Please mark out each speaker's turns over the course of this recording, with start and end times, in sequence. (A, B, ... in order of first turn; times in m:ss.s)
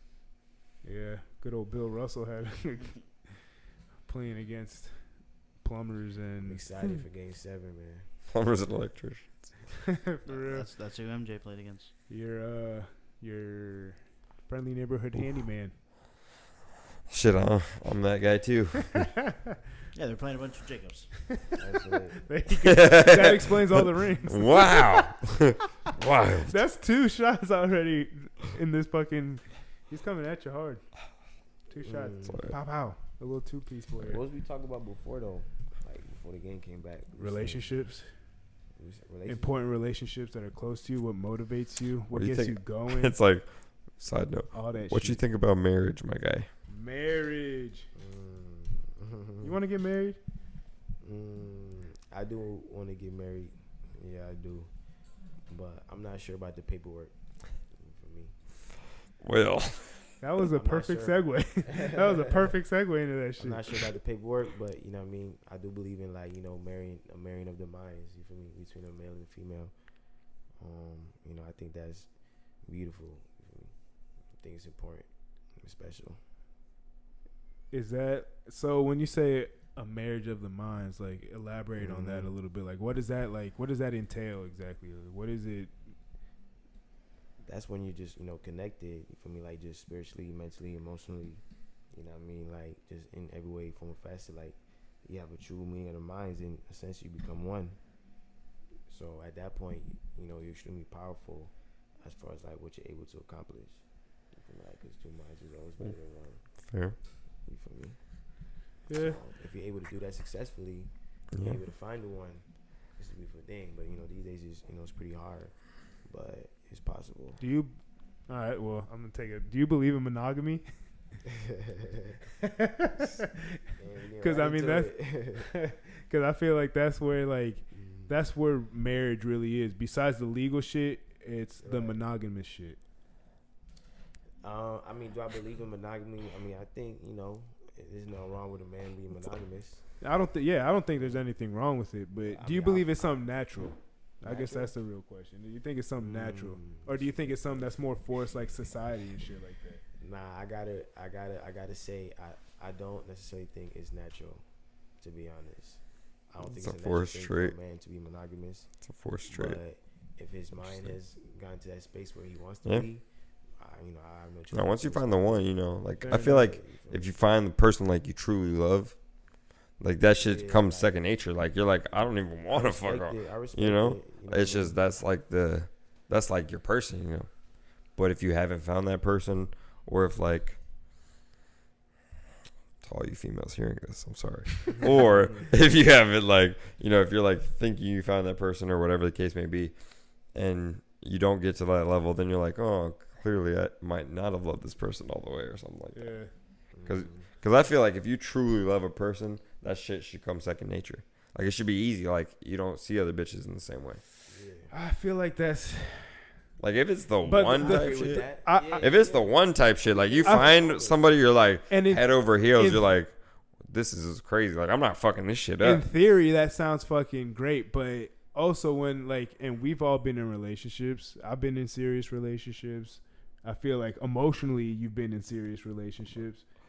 0:00.8-0:03.3 A
0:04.1-0:05.0 A
0:05.6-0:06.7 A
0:06.4-0:08.1 B
0:08.3-0:09.4 C
0:09.9-0:10.7 A
0:10.2-0:11.9 D
0:12.1-0:15.7 A
0:17.1-0:19.2 C
0:19.9-0:21.1 D
0:21.6-0:22.2 B
0:22.2-0:25.1 A
0:22.6-0:23.6 C
0:24.3-0:26.6 C
0:26.4-0:30.8 A
0:31.7-0:34.2 A
0:31.8-0:32.5 B
0:32.2-0:32.6 C
0:34.0-0:37.7 B
0:37.2-0:38.1 A
0:38.8-0:39.5 B
0:39.3-0:43.1 A
0:42.1-0:43.5 C
0:44.0-0:46.5 C
0:44.5-0:45.2 A
0:46.7-0:47.9 A
0:48.0-0:49.6 B
0:49.4-0:50.2 A
0:51.0-0:54.7 B
0:55.5-0:57.1 B
0:57.7-0:58.4 B
0:59.2-1:00.1 C
1:00.2-1:03.9 A
1:00.4-1:02.5 B
1:03.4-1:09.7 B
1:10.6-1:12.1 B
1:12.6-1:13.7 B
1:14.4-1:16.2 B
1:17.7-1:25.7 A
1:21.8-1:22.3 B
1:27.4-1:31.4 B
1:31.9-1:37.8 B
1:38.9-1:46.4 B
1:46.6-1:47.0 C
1:47.4-1:48.0 B
1:48.9-1:49.2 A
1:48.9-1:50.9 B
1:51.3-1:51.6 C
1:51.4-1:52.4 B
1:53.0-1:57.4 B
1:57.4-1:57.7 A
1:58.3-2:00.6 A
2:01.2-2:02.2 B
2:02.4-2:03.6 A
2:03.8-2:05.5 B
2:04.2-2:04.9 A
2:05.5-2:12.8 A
2:07.7-2:08.1 B
2:11.6-2:12.0 B
2:14.4-2:19.8 B
2:20.0-2:29.8 A
2:22.2-2:23.2 B
2:24.2-2:24.7 B
2:26.0-2:27.1 B
2:30.0-2:34.4 B
2:35.0-2:38.7 B
2:36.4-2:37.5 C
2:38.8-2:39.6 C
2:39.3-2:43.0 B
2:40.6-2:41.0 C
2:43.6-2:45.5 B
2:44.5-2:49.0 C
2:46.0-2:47.1 B
2:49.8-2:57.3 C
2:50.1-2:51.0 B
2:52.5-2:54.8 B
2:58.0-3:00.6 C
3:02.8-3:09.8 C
3:10.3-3:16.1 C
3:15.9-3:16.3 A
3:16.7-3:17.3 B
3:16.9-3:24.0 C
3:24.3-3:24.7 B
3:24.7-3:26.3 A
3:26.6-3:35.8 C
3:27.2-3:28.8 A
3:27.4-3:31.3 B
3:31.7-3:32.9 A
3:35.6-3:46.4 A